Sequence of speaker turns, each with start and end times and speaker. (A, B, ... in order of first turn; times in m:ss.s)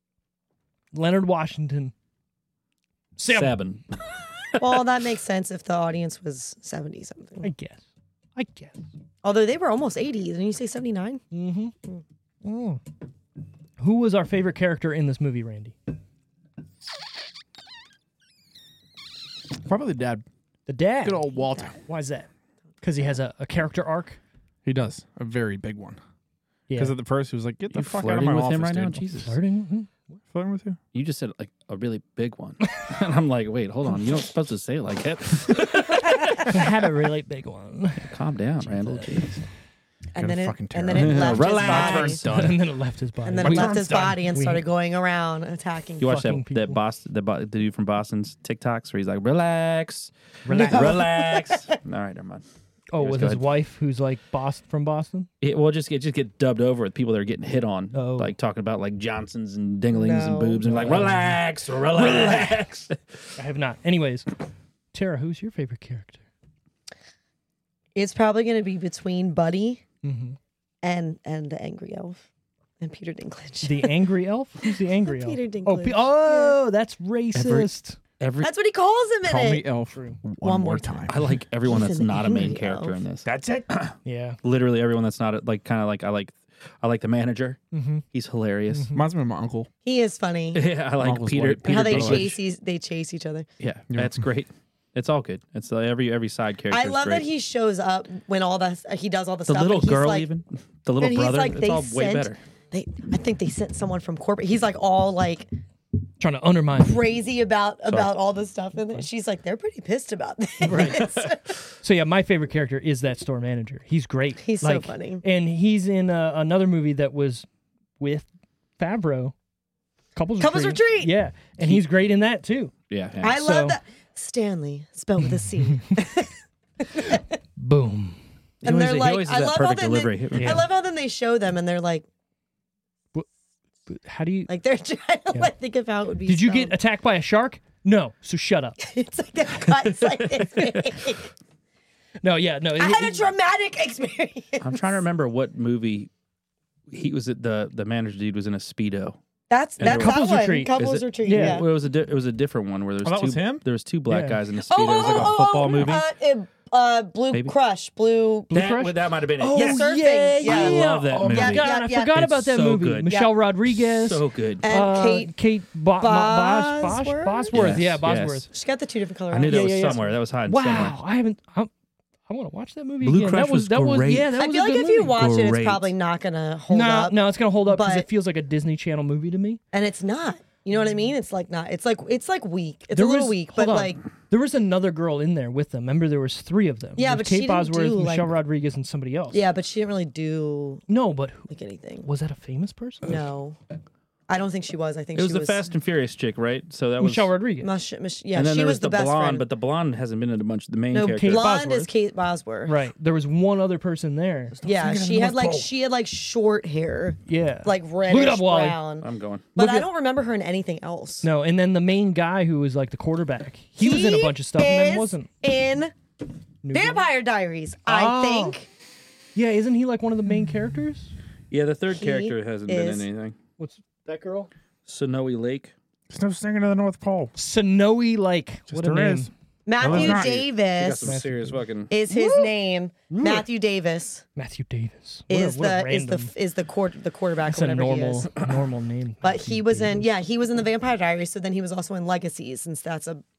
0:00.9-0:01.9 A
0:03.2-0:03.6 A
0:03.3-0:03.8 B
0:04.5-0:04.8 B
0:04.6-0:07.5 C
0:07.4-0:07.8 A
0:08.4-0:08.8 A
0:09.2-0:11.2 C
0:11.3-0:11.7 A
0:12.4-0:12.8 A
0:13.8-0:15.8 A
0:19.6-0:20.2 D
0:20.7-0:22.3 A
0:21.0-0:21.8 D
0:22.8-0:24.2 A
0:24.6-0:26.0 D
0:26.7-0:27.0 A
0:26.8-0:29.1 D
0:27.7-0:29.4 B
0:29.2-0:30.0 A
0:30.3-0:30.8 D
0:30.9-0:36.6 B
0:36.4-0:39.4 A
0:38.0-0:39.4 B
0:40.2-0:42.2 C
0:40.2-0:42.5 D
0:40.9-0:42.6 B
0:42.2-0:44.6 A
0:43.2-0:46.0 C
0:43.4-0:44.2 D
0:46.0-0:52.4 B
0:46.0-0:46.8 A
0:50.4-0:51.0 A
0:50.5-0:51.8 C
0:52.9-0:55.3 A
0:53.0-0:53.5 B
0:55.4-1:03.0 B
0:57.9-0:58.3 A
0:59.9-1:00.8 C
1:00.6-1:01.4 A
1:01.9-1:02.6 A
1:03.4-1:04.3 A
1:04.9-1:06.2 A
1:08.0-1:09.8 C
1:10.0-1:10.4 A
1:10.8-1:12.2 C
1:12.8-1:13.9 C
1:13.6-1:18.0 A
1:14.6-1:16.6 C
1:17.4-1:18.5 B
1:18.4-1:19.7 C
1:19.2-1:21.2 D
1:19.9-1:20.2 A
1:20.4-1:21.1 C
1:21.1-1:27.6 B
1:21.6-1:23.0 C
1:23.2-1:23.7 D
1:24.0-1:24.4 A
1:27.7-1:28.0 A
1:28.1-1:28.9 B
1:28.7-1:29.0 A
1:28.9-1:29.7 D
1:29.8-1:30.6 C
1:30.5-1:32.4 B
1:31.0-1:32.4 D
1:31.6-1:33.5 C
1:33.6-1:37.3 B
1:33.9-1:34.2 D
1:36.7-1:40.3 C
1:39.5-1:42.4 B
1:41.0-1:45.5 C
1:46.2-1:47.0 A
1:46.8-1:51.5 C
1:47.9-1:48.2 B
1:50.6-1:51.1 A
1:50.7-1:51.3 B
1:51.8-1:57.5 A
1:54.4-1:55.2 C
1:58.0-1:58.3 A
1:58.8-1:59.3 A
2:00.2-2:02.7 A
2:00.4-2:01.1 C
2:01.6-2:01.8 B
2:02.9-2:03.4 B
2:03.2-2:07.2 C
2:03.3-2:03.8 A
2:07.6-2:08.2 A
2:08.6-2:10.7 B
2:08.6-2:12.1 C
2:10.3-2:10.7 A
2:13.9-2:14.5 A
2:14.5-2:16.8 C
2:16.3-2:18.8 A
2:18.8-2:21.3 C
2:19.9-2:20.8 B
2:22.2-2:23.2 A
2:22.8-2:25.0 C
2:24.6-2:26.1 B
2:26.9-2:29.2 B
2:29.5-2:31.7 C
2:29.8-2:30.2 B
2:29.8-2:31.6 A
2:30.8-2:36.1 B
2:33.0-2:33.6 D
2:34.1-2:34.4 A
2:34.7-2:38.5 C
2:38.5-2:48.5 A
2:38.5-2:39.9 B
2:39.5-2:42.2 C
2:40.4-2:44.7 B
2:41.1-2:41.5 D
2:44.6-2:45.3 C
2:46.0-2:47.6 C
2:47.5-2:48.5 B
2:48.5-2:50.0 C
2:49.3-2:51.0 B
2:49.5-2:51.7 A
2:52.3-2:55.2 A
2:53.0-2:54.4 B
2:54.4-2:58.1 C
2:55.1-2:55.9 B
2:56.7-2:59.6 A
2:59.7-3:04.0 C
3:02.9-3:09.4 A
3:07.0-3:08.4 C
3:09.3-3:10.8 C
3:10.9-3:11.5 A
3:11.5-3:12.1 C
3:12.0-3:13.2 A
3:13.0-3:13.6 C
3:14.3-3:15.6 C
3:15.2-3:17.3 B
3:17.0-3:17.7 A
3:17.6-3:19.4 C
3:18.3-3:21.5 B
3:20.9-3:22.8 C
3:21.1-3:21.9 A
3:22.6-3:24.6 A
3:24.6-3:25.7 D
3:24.6-3:31.3 C
3:27.3-3:28.8 A
3:29.0-3:29.5 B
3:29.6-3:29.9 A
3:31.2-3:35.3 A
3:33.8-3:35.9 C
3:36.6-3:37.1 A
3:36.7-3:38.7 C
3:37.9-3:38.6 A
3:39.4-3:41.1 A
3:41.5-3:43.4 B
3:41.9-3:43.1 C
3:43.6-3:44.5 A
3:44.9-3:45.7 B
3:46.1-3:47.4 D
3:47.4-3:49.3 A
3:48.7-3:50.4 D
3:49.7-3:51.2 C
3:49.8-3:51.9 B
3:51.0-3:52.5 A
3:51.9-3:54.2 C
3:53.1-3:53.4 A
3:54.4-3:56.3 A
3:55.3-3:58.4 C
3:57.5-4:00.1 A
3:59.2-4:03.2 C